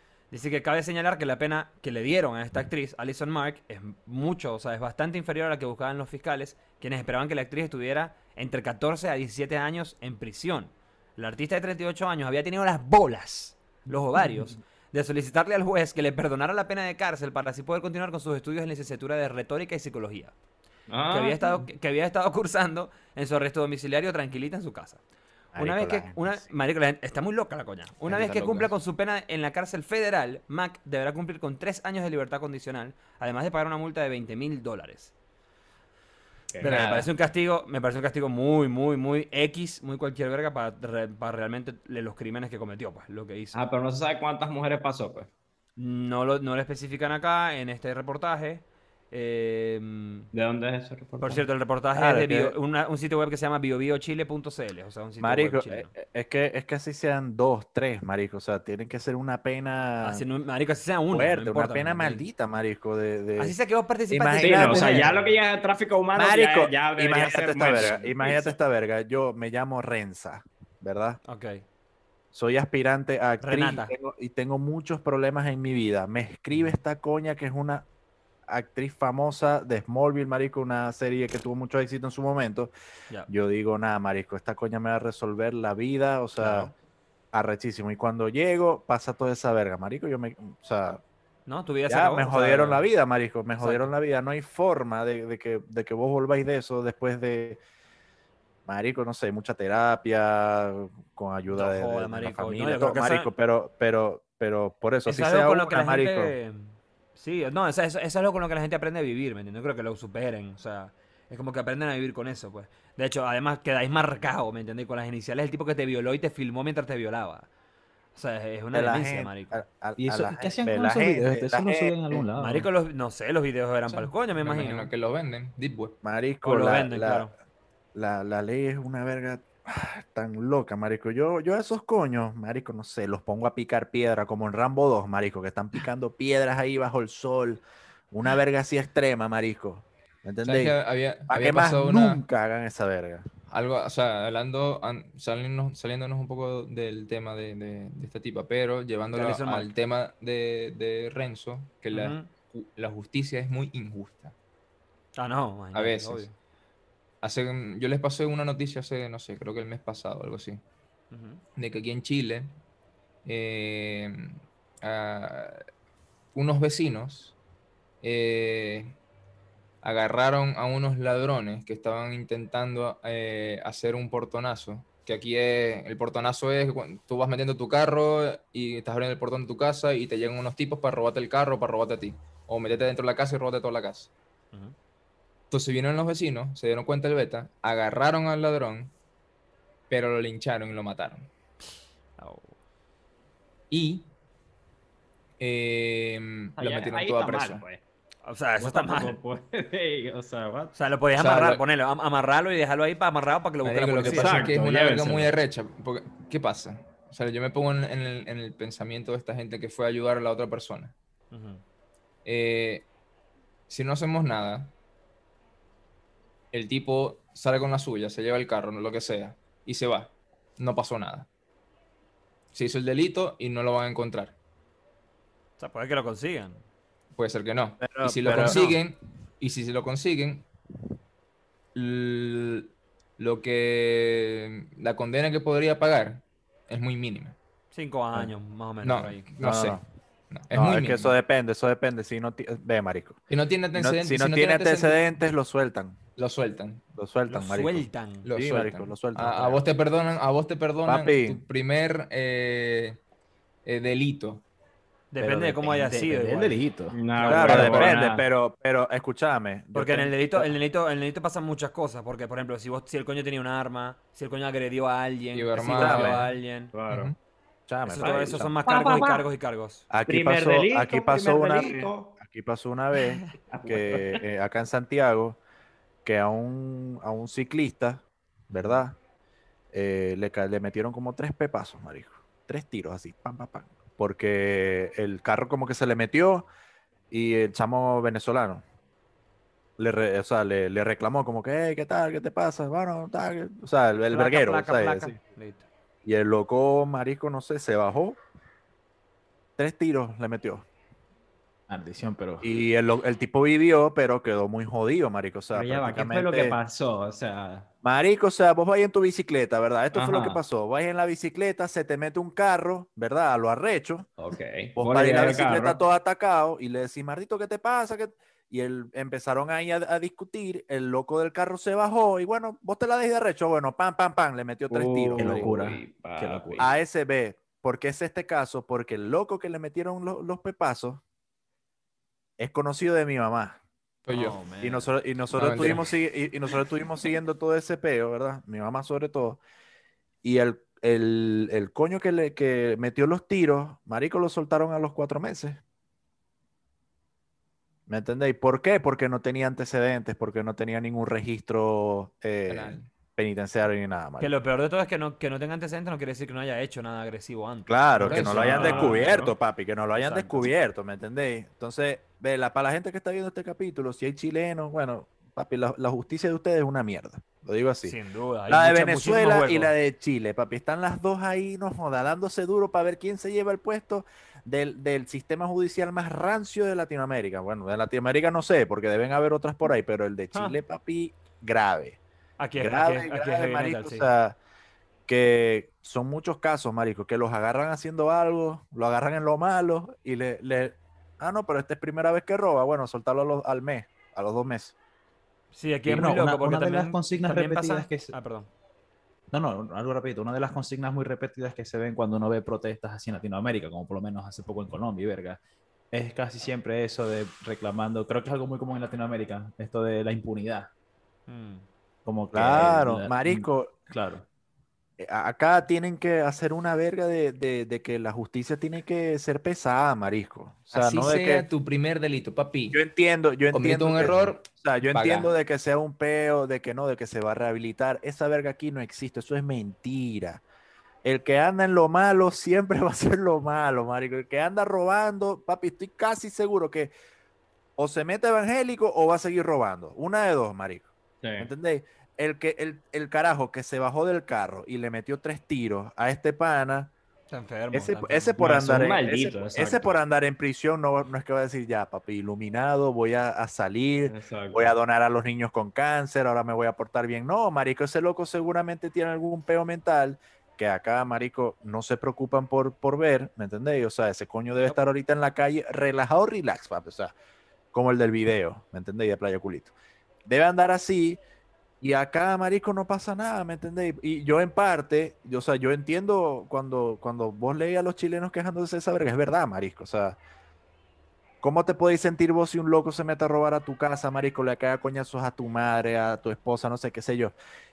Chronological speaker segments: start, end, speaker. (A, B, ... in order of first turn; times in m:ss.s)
0:00.3-0:20.3 A
0:20.9-0:21.6 B
0:21.1-0:25.0 A
0:25.5-0:26.4 C
0:25.6-0:35.1 A
0:36.6-0:37.1 D
0:36.6-0:43.6 A
0:43.5-0:45.3 B
0:45.8-0:50.3 A
0:50.3-0:51.5 B
0:51.2-0:55.9 A
0:52.0-0:52.6 C
0:55.2-1:00.2 C
1:00.0-1:02.2 A
1:01.1-1:03.6 C
1:03.4-1:05.3 A
1:04.1-1:05.2 C
1:04.4-1:08.6 B
1:06.2-1:11.2 C
1:07.7-1:08.0 A
1:11.2-1:11.6 A
1:12.3-1:17.9 C
1:13.4-1:13.9 A
1:18.5-1:22.7 C
1:23.3-1:26.7 C
1:26.4-1:26.7 A
1:27.3-1:31.0 C
1:31.5-1:32.9 A
1:31.9-1:37.6 C
1:33.6-1:33.9 A
1:38.7-1:46.3 C
1:41.5-1:43.3 A
1:45.1-1:57.5 A
1:58.2-1:59.6 A
1:58.7-2:02.2 C
2:00.0-2:02.7 D
2:02.4-2:04.9 A
2:03.9-2:06.0 E
2:06.0-2:07.3 C
2:06.4-2:07.3 A
2:07.9-2:20.8 C
2:20.4-2:22.2 E
2:21.3-2:23.3 C
2:23.5-2:34.4 E
2:29.1-2:29.7 A
2:31.9-2:32.3 A
2:35.2-2:36.3 A
2:35.7-2:36.3 E
2:37.2-2:40.6 E
2:41.1-2:41.4 A
2:41.6-2:42.5 E
2:43.2-2:45.6 E
2:46.3-2:47.4 E
2:48.0-2:49.0 E
2:49.8-3:04.1 E
3:05.5-3:08.9 E
3:09.9-3:11.3 E
3:12.2-3:12.5 A
3:13.7-3:14.1 E
3:15.4-3:17.6 E
3:16.6-3:17.8 B
3:18.2-3:19.2 A
3:18.6-3:20.8 B
3:20.8-3:24.5 A
3:21.2-3:21.6 E
3:23.6-3:31.0 E
3:24.0-3:25.3 B
3:31.3-3:31.6 A
3:32.2-3:32.9 E
3:33.7-3:34.7 E
3:36.5-3:41.3 E
3:42.5-3:44.4 E
3:45.6-3:46.6 A
3:47.2-3:50.5 E
3:47.8-3:48.7 C
3:48.3-3:48.8 A
3:51.7-3:57.4 E
3:57.7-3:59.3 A
3:58.8-4:01.2 E
3:59.4-3:59.8 C
4:00.5-4:03.2 C
4:03.3-4:05.0 E
4:03.8-4:06.0 C
4:06.2-4:06.8 E
4:07.0-4:09.6 C
4:07.3-4:08.3 A
4:08.2-4:13.0 E
4:10.9-4:11.4 C
4:13.6-4:14.4 E
4:15.1-4:16.6 A
4:15.2-4:15.9 C
4:15.9-4:17.0 D
4:16.9-4:18.2 B
4:17.2-4:18.1 A
4:17.2-4:20.5 C
4:19.7-4:26.7 A
4:25.3-4:26.4 E
4:25.8-4:26.1 C
4:26.7-4:27.1 B
4:26.9-4:27.2 E
4:27.7-4:28.6 C
4:27.8-4:29.9 A
4:28.0-4:29.2 B
4:29.9-4:35.4 C
4:30.1-4:32.2 B
4:33.3-4:34.2 B
4:36.0-4:39.0 C
4:39.7-4:46.5 C
4:47.1-4:48.6 C
4:49.8-4:55.2 C
4:54.1-4:55.7 A
4:56.0-4:58.2 C
4:59.6-5:00.7 C
5:01.7-5:02.4 D
5:02.4-5:06.6 C
5:05.5-5:07.7 B
5:07.8-5:14.1 C
5:09.9-5:10.4 B
5:14.2-5:15.8 B
5:14.8-5:25.5 C
5:24.7-5:26.7 B
5:25.2-5:26.7 D
5:26.6-5:31.0 C
5:32.4-5:33.6 C
5:34.1-5:34.4 E
5:34.1-5:34.9 A
5:34.6-5:39.4 C
5:35.4-5:35.9 E
5:40.2-5:45.6 C
5:47.9-5:54.3 C
5:52.5-5:52.9 E
5:54.2-5:59.4 A
5:57.7-6:08.0 C
5:58.0-5:58.9 E
5:58.6-5:59.0 B
6:00.0-6:00.5 A
6:07.8-6:09.7 A
6:08.5-6:22.0 C
6:20.3-6:20.6 A
6:22.4-6:24.1 A
6:22.6-6:24.4 C
6:25.1-6:34.8 C
6:35.5-6:38.5 A
6:35.9-6:38.1 D
6:39.3-6:45.4 D
6:45.9-6:50.7 D
6:51.3-6:51.7 A
6:52.0-6:54.2 D
6:52.3-6:53.8 C
6:55.0-7:01.4 C
7:00.7-7:02.8 E
7:02.7-7:10.4 C
7:03.5-7:05.3 E
7:11.0-7:16.9 C
7:17.8-7:26.9 C
7:21.2-7:21.5 B
7:27.3-7:28.4 A
7:27.7-7:47.2 C
7:28.4-7:30.0 B
7:34.1-7:34.7 B
7:47.7-7:49.7 C
7:50.2-7:51.2 C
7:51.8-8:00.2 C
8:01.4-8:07.4 C